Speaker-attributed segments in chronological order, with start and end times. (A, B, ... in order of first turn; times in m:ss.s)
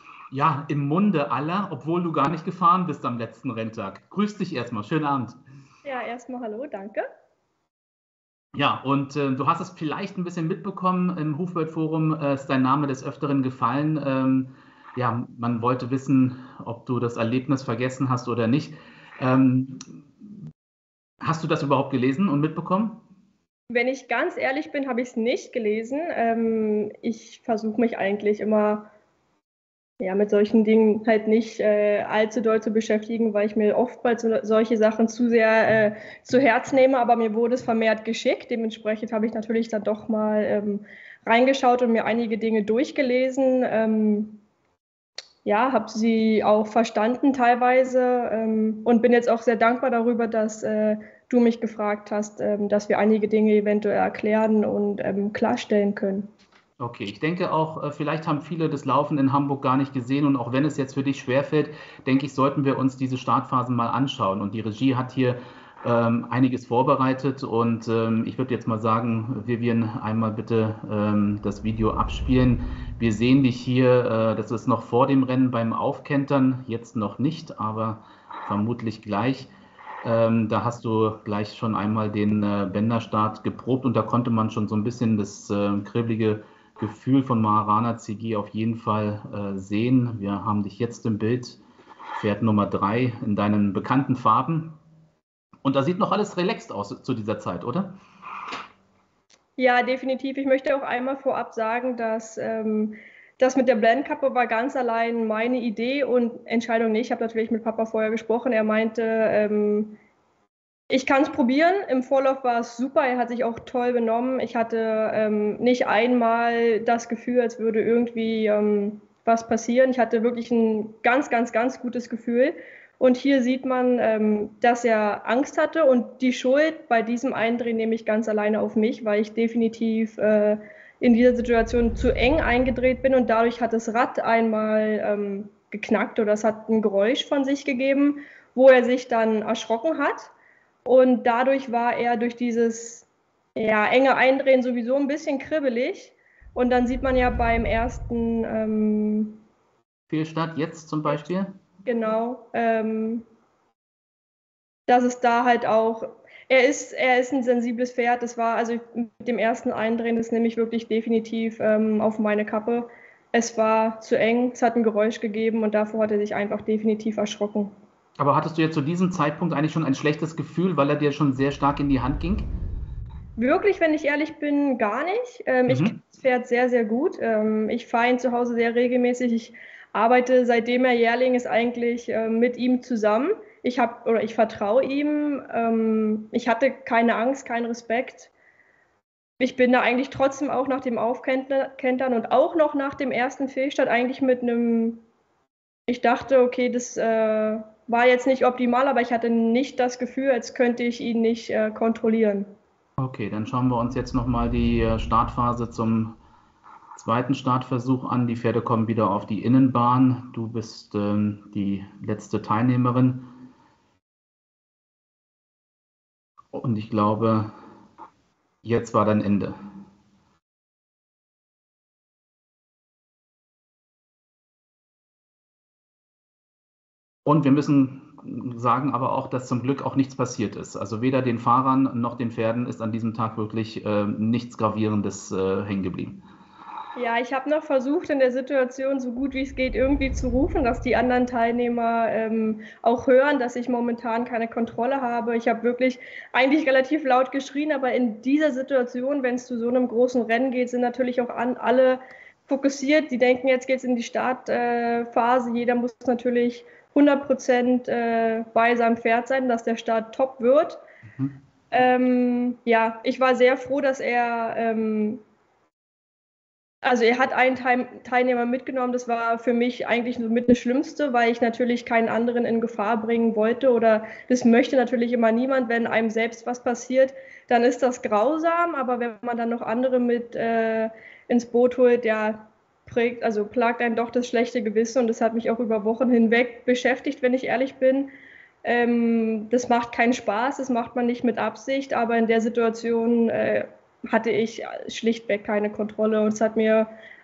0:00.3-0:05.4 A
0:05.8-0:07.1 B
0:08.5-0:20.3 A
0:21.2-0:23.0 A
0:23.7-0:28.9 B
0:30.0-0:44.4 B
0:45.4-0:56.3 B
0:56.8-1:19.5 A
1:20.0-1:31.6 A
1:32.2-1:34.8 A
1:35.6-1:38.0 A
1:39.6-1:50.0 B
1:50.9-2:20.3 B
2:20.8-2:29.4 B
2:30.1-2:31.6 A
2:31.8-2:33.2 B
2:34.9-2:47.7 B
2:48.2-2:52.5 A
2:53.4-3:08.3 B
2:55.7-2:56.0 A
3:09.4-3:15.0 B
3:15.9-3:22.5 B
3:23.0-3:26.2 A
3:26.9-3:33.3 A
3:36.5-3:37.6 A
3:38.6-3:39.6 A
3:47.2-3:56.2 A
3:57.0-4:20.8 B
4:21.1-4:21.4 A
4:21.7-4:25.2 B
4:26.8-4:48.1 B
4:48.6-4:56.9 B